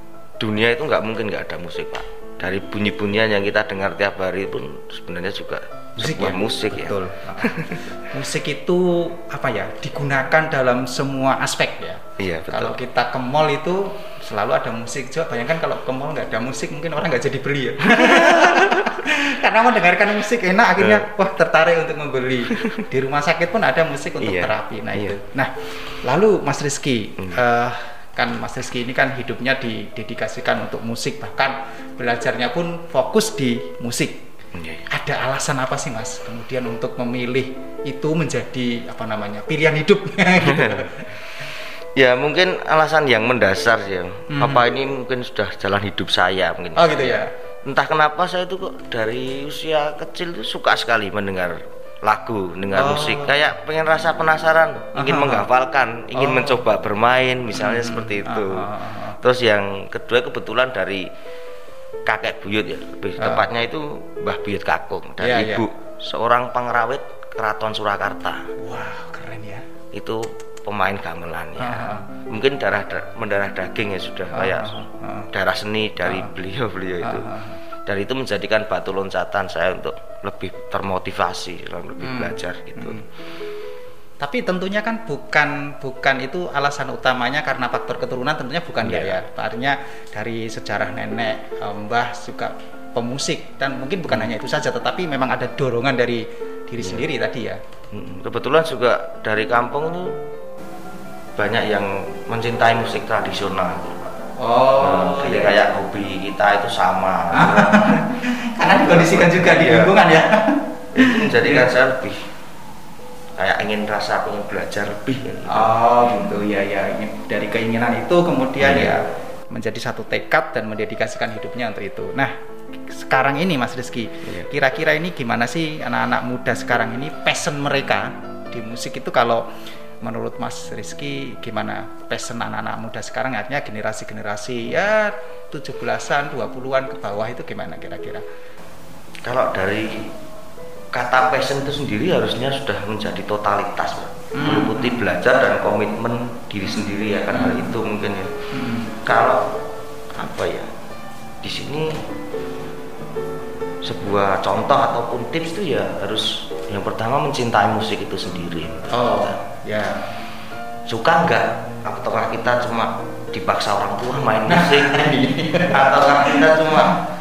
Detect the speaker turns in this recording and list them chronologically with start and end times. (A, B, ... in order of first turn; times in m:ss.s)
0:00.4-0:07.9 A
0:06.0-0:34.2 B
0:12.2-0:12.8 A
0:17.8-0:18.9 A
0:20.8-0:21.1 A
0:22.5-0:22.8 A
0:24.2-0:25.2 A
0:34.5-0:34.8 A
0:34.9-0:41.1 B
0:40.4-0:41.0 A
0:42.0-1:01.1 A
0:44.3-0:44.7 B
0:46.8-0:47.3 B
0:52.7-0:53.3 B
0:54.9-0:55.5 B
0:56.1-0:56.6 B
0:57.6-0:59.2 B
1:02.0-1:08.5 A
1:03.2-1:03.4 B
1:05.2-1:05.7 B
1:08.6-1:09.6 B
1:09.9-1:17.3 A
1:11.6-1:12.1 B
1:14.3-1:15.3 B
1:16.0-1:16.3 B
1:17.0-1:17.6 B
1:17.8-1:23.0 A
1:22.0-1:23.0 B
1:24.2-1:37.6 B
1:28.8-1:29.2 A
1:36.8-1:37.0 A
1:37.9-1:40.2 A
1:41.4-1:44.0 A
1:44.4-1:45.6 B
1:44.8-1:48.0 A
1:47.3-1:51.7 B
1:48.8-1:49.9 A
1:50.9-1:52.3 A
1:53.4-1:55.7 A
1:55.5-2:09.4 B
1:58.6-1:58.9 A
2:10.0-2:18.2 B
2:19.2-2:20.1 A
2:20.9-2:28.3 A
2:24.3-2:25.1 B
2:27.3-2:27.7 B
2:28.5-2:28.9 B
2:29.0-2:29.5 A
2:30.1-2:30.7 A
2:31.4-2:32.0 A
2:33.8-2:39.4 A
2:38.9-2:40.0 B
2:40.9-2:45.1 A
2:44.5-2:47.0 B
2:45.6-2:47.0 A